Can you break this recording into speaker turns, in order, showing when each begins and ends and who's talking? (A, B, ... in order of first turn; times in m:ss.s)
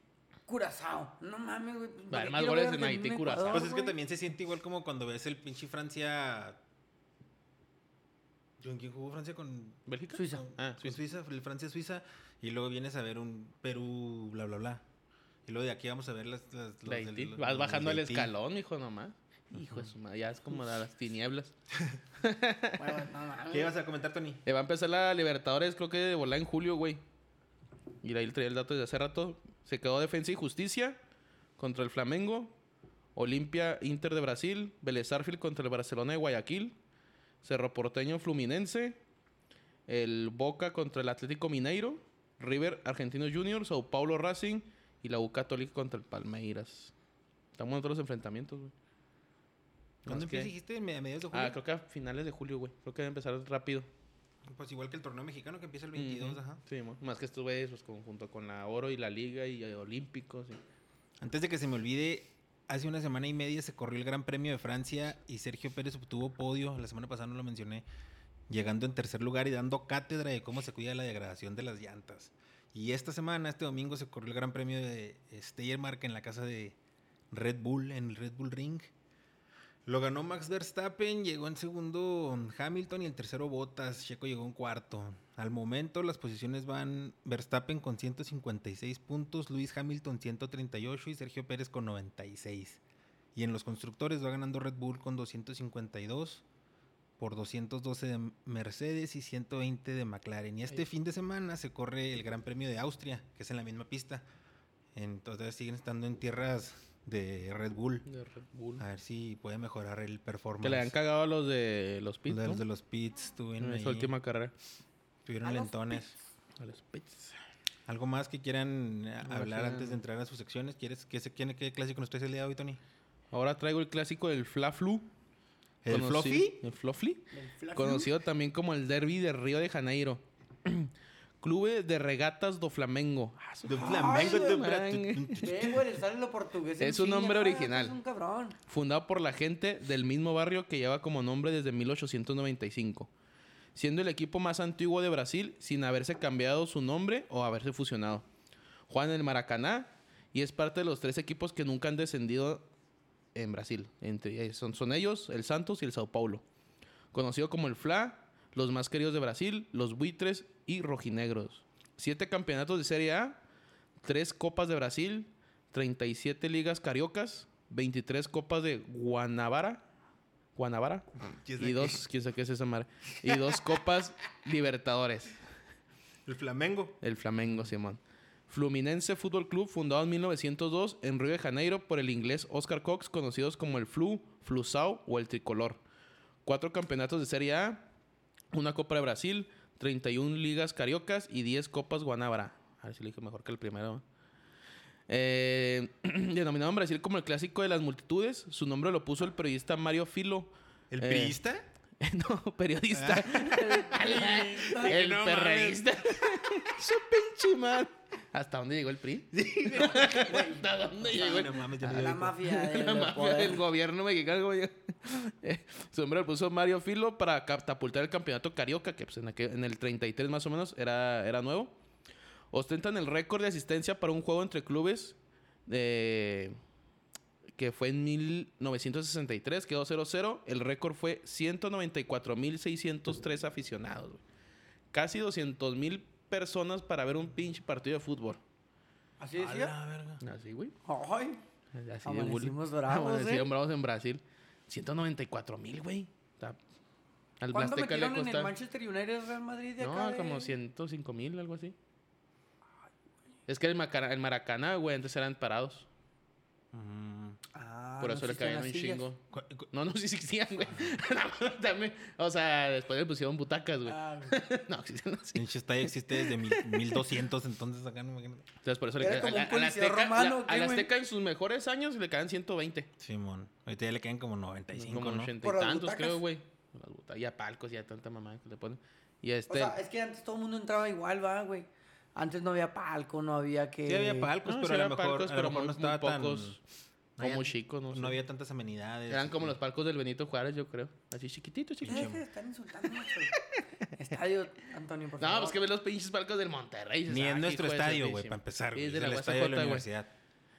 0:00.5-0:04.0 A
0:02.1-0:03.7 B
0:03.5-0:06.6 C
0:08.6-0:09.8 C
0:09.9-0:11.0 B
0:10.1-0:10.5 A
0:10.4-0:14.8 C
0:15.5-0:18.3 C
0:16.9-0:21.5 B
0:19.6-0:19.9 C
0:22.2-0:23.0 B
0:22.8-0:23.7 A
0:23.5-0:24.4 C
0:24.4-0:27.0 B
0:28.0-0:31.0 B
0:31.6-0:32.6 B
0:33.2-0:36.8 B
0:37.4-0:39.0 B
0:39.9-0:46.9 B
0:47.6-0:48.7 B
0:50.0-0:50.5 B
0:50.1-0:51.6 C
0:51.3-0:53.9 B
0:54.5-0:56.6 C
0:56.0-1:00.6 B
1:01.2-1:07.8 C
1:08.5-1:16.8 C
1:17.3-1:18.9 C
1:19.9-1:32.8 C
1:33.4-1:36.4 C
1:37.2-1:44.2 C
1:45.0-1:48.1 C
1:48.1-1:48.8 B
1:48.8-1:50.9 C
1:50.6-1:52.6 B
1:52.3-1:54.2 C
1:53.6-1:54.5 B
1:55.3-1:56.2 C
1:55.4-1:56.1 A
1:56.6-1:57.4 B
1:57.9-2:02.8 C
1:59.2-2:00.0 B
2:03.3-2:05.1 B
2:05.8-2:06.6 C
2:05.9-2:15.7 B
2:07.3-2:08.1 A
2:13.7-2:15.8 C
2:13.7-2:14.6 A
2:15.4-2:18.6 A
2:16.8-2:18.0 B
2:18.7-2:23.1 B
2:23.8-2:28.3 B
2:28.9-2:32.7 B
2:33.4-2:36.4 B
2:37.1-2:43.4 B
2:44.0-2:49.8 B
2:50.6-2:55.4 B
2:51.2-2:52.0 C
2:53.3-2:53.5 C
2:56.3-2:57.7 C
2:57.0-3:05.8 B
3:06.4-3:07.9 B
3:08.5-3:14.0 B
3:15.1-3:21.4 B
3:20.9-3:21.6 C
3:22.0-3:41.7 B
3:22.9-3:26.7 C
3:23.4-3:25.0 A
3:29.3-3:30.5 C
3:29.9-3:33.6 A
3:31.0-3:32.4 C
3:42.5-3:46.6 B
3:47.6-3:54.2 B
3:54.9-3:58.4 B
3:59.2-3:59.8 A
3:59.4-4:00.2 C
4:00.2-4:00.8 B
4:00.8-4:01.4 A
4:01.7-4:06.6 B
4:02.0-4:03.5 A
4:07.4-4:08.5 B
4:07.5-4:10.5 A
4:09.8-4:11.8 B
4:13.5-4:15.9 B
4:16.7-4:17.4 C
4:17.5-4:19.1 A
4:18.0-4:27.1 B
4:19.3-4:19.7 C
4:23.9-4:24.4 A
4:25.3-4:28.5 C
4:28.6-4:32.9 B
4:29.0-4:30.9 A
4:33.0-4:35.3 C
4:34.7-4:39.8 B
4:35.4-4:36.2 A
4:39.5-4:44.3 A
4:43.8-4:46.6 C
4:44.4-4:46.6 B
4:47.2-4:49.6 C
4:47.2-4:48.2 B
4:49.1-4:52.1 B
4:51.8-4:52.2 C
4:51.9-4:53.4 A
4:54.0-4:55.6 A
4:55.2-4:59.9 B
4:57.1-5:00.1 C